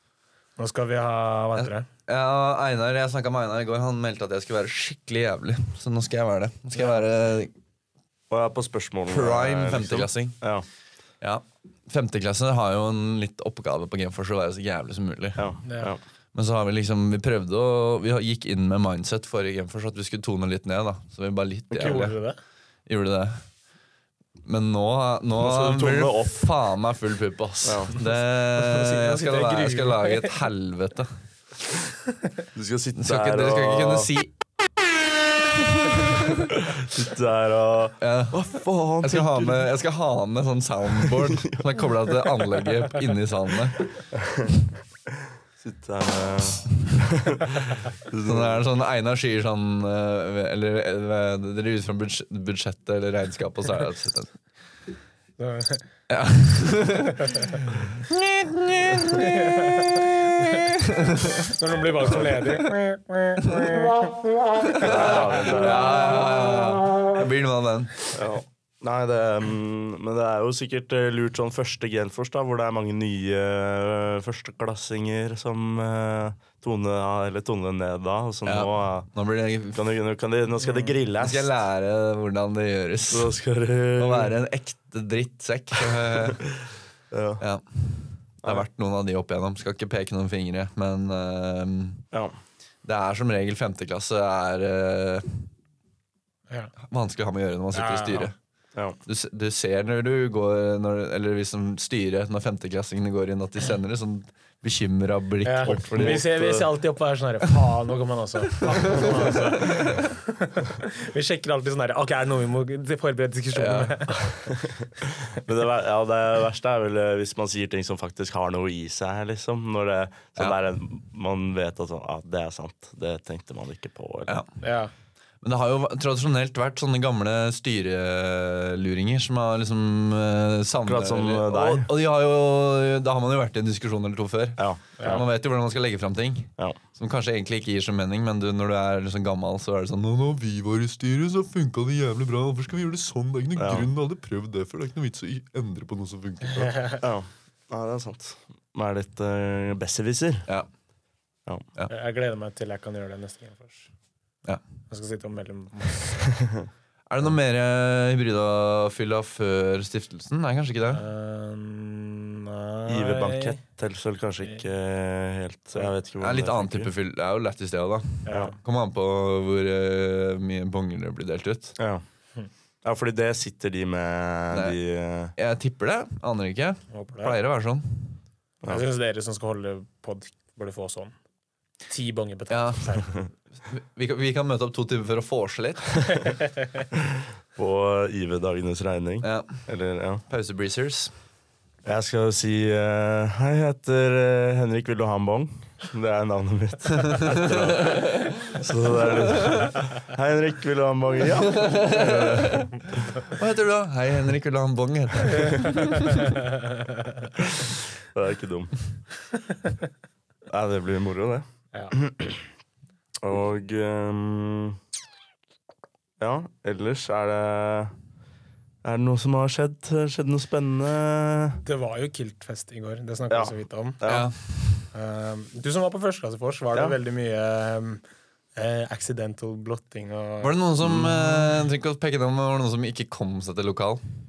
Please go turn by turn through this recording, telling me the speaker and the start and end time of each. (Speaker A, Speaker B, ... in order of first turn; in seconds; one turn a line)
Speaker A: 0.6-1.9
Speaker B: 1.6-7.5
Speaker C: 8.3-10.7
Speaker B: 9.1-10.4
Speaker B: 11.2-15.4
Speaker C: 15.4-16.0
Speaker A: 15.7-15.9
Speaker B: 16.4-22.1
Speaker A: 21.7-22.4
Speaker B: 22.9-23.4
Speaker B: 24.4-31.1
Speaker C: 25.4-26.4
Speaker C: 27.6-27.9
Speaker A: 28.6-30.4
Speaker C: 32.5-34.1
Speaker B: 33.0-34.3
Speaker B: 35.6-36.5
Speaker C: 36.5-39.7
Speaker B: 38.0-43.9
Speaker C: 41.0-41.6
Speaker C: 44.2-44.5
Speaker C: 45.6-48.6
Speaker B: 48.3-54.3
Speaker A: 55.4-55.9
Speaker B: 56.1-61.6
Speaker A: 59.2-60.0
Speaker A: 61.5-64.2
Speaker B: 63.4-63.8
Speaker B: 64.6-68.0
Speaker A: 64.8-65.5
Speaker C: 64.8-66.0
Speaker C: 68.1-79.1
Speaker B: 78.5-79.8
Speaker C: 79.7-81.5
Speaker A: 80.6-80.9
Speaker B: 81.2-83.3
Speaker C: 83.1-84.3
Speaker B: 84.0-86.4
Speaker C: 85.9-87.4
Speaker B: 87.4-92.0
Speaker B: 92.8-95.5
Speaker B: 96.8-98.3
Speaker A: 97.7-98.3
Speaker B: 99.1-106.2
Speaker A: 105.4-114.3
Speaker C: 105.6-106.7
Speaker B: 108.9-110.1
Speaker B: 113.5-114.1
Speaker C: 114.3-124.3
Speaker A: 124.6-124.9
Speaker B: 125.4-146.8
Speaker C: 130.9-131.9
Speaker C: 134.6-135.2
Speaker C: 143.6-143.9
Speaker A: 146.7-147.0
Speaker C: 147.0-150.5
Speaker A: 151.9-153.9
Speaker A: 154.9-156.2
Speaker B: 157.1-161.0
Speaker A: 160.9-163.6
Speaker C: 162.9-166.9
Speaker B: 166.2-171.8
Speaker A: 168.2-168.6
Speaker C: 171.8-172.0
Speaker C: 172.8-175.3
Speaker B: 175.4-178.2
Speaker A: 176.9-177.3
Speaker A: 178.7-181.1
Speaker A: 181.9-183.1
Speaker B: 182.5-183.0
Speaker B: 183.7-186.2
Speaker C: 187.1-190.2
Speaker B: 189.2-189.6
Speaker B: 190.3-191.1
Speaker C: 191.8-202.5
Speaker B: 197.1-198.6
Speaker B: 201.4-206.3
Speaker A: 206.1-206.6
Speaker C: 207.4-208.8
Speaker C: 210.5-212.4
Speaker C: 213.2-214.8
Speaker C: 216.2-217.9
Speaker C: 218.8-221.6
Speaker A: 221.6-224.0
Speaker C: 223.3-224.3
Speaker B: 224.1-224.4
Speaker A: 224.9-228.0
Speaker A: 228.6-230.6
Speaker B: 230.4-234.0
Speaker C: 230.8-231.6